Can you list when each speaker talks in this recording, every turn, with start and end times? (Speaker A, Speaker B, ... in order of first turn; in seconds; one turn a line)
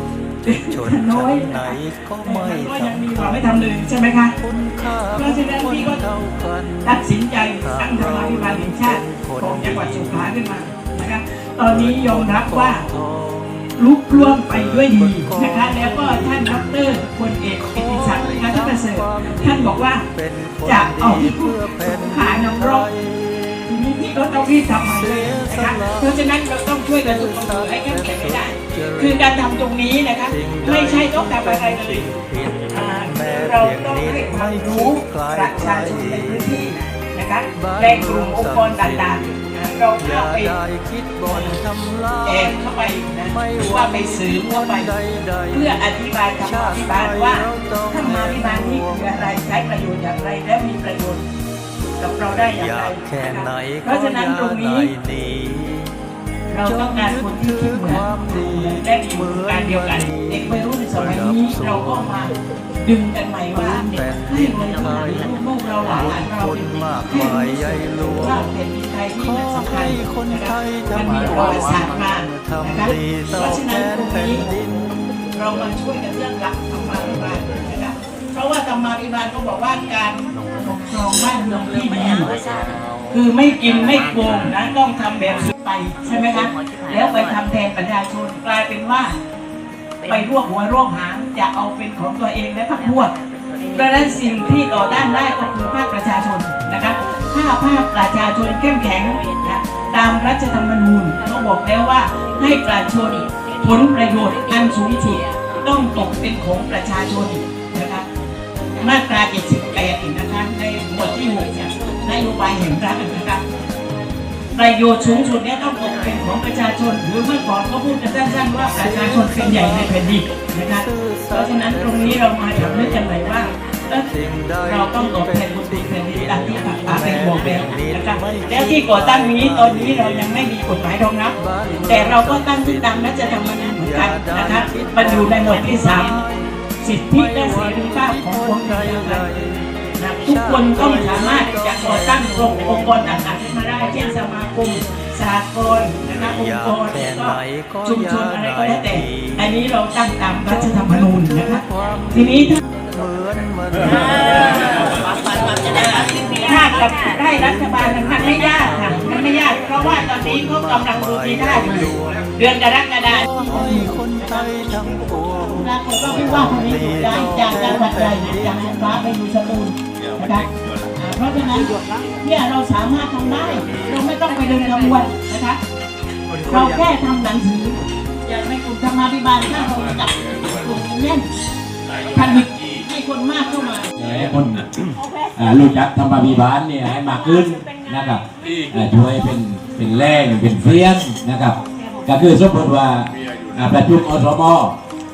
Speaker A: 0.5-4.3
Speaker B: 0.6-10.4
Speaker A: 5.1-6.0
Speaker A: 6.8-12.8
Speaker B: 11.7-16.8
Speaker A: 13.8-20.1
Speaker B: 17.5-23.8
Speaker A: 20.6-22.9
Speaker A: 23.7-32.1
Speaker B: 24.5-29.4
Speaker B: 30.3-36.7
Speaker A: 32.7-40.5
Speaker B: 37.6-39.3
Speaker B: 40.0-42.6
Speaker A: 41.3-41.6
Speaker A: 42.2-44.9
Speaker B: 43.2-45.8
Speaker A: 45.5-51.2
Speaker B: 46.3-49.5
Speaker A: 52.0-54.9
Speaker B: 52.4-56.0
Speaker A: 56.5-62.3
Speaker B: 56.6-62.2
Speaker A: 62.8-74.5
Speaker B: 63.5-65.2
Speaker B: 65.8-68.5
Speaker B: 69.2-74.8
Speaker A: 75.3-82.3
Speaker A: 83.1-89.2
Speaker A: 90.1-93.1
Speaker A: 93.7-108.0
Speaker A: 108.8-113.4
Speaker A: 114.5-124.1
Speaker B: 118.7-120.0
Speaker B: 120.7-123.3
Speaker B: 124.0-130.5
Speaker A: 124.6-131.3
Speaker B: 131.4-143.0
Speaker A: 131.9-136.2
Speaker A: 136.8-139.3
Speaker A: 140.0-151.6
Speaker B: 146.1-149.5
Speaker B: 150.5-162.3
Speaker A: 152.1-152.6
Speaker A: 156.3-164.5
Speaker B: 163.1-169.0
Speaker A: 165.5-175.6
Speaker A: 176.5-181.3
Speaker A: 182.1-184.3
Speaker C: 184.0-184.7
Speaker A: 184.9-185.7
Speaker C: 185.4-194.8
Speaker A: 187.0-189.3
Speaker A: 191.8-192.1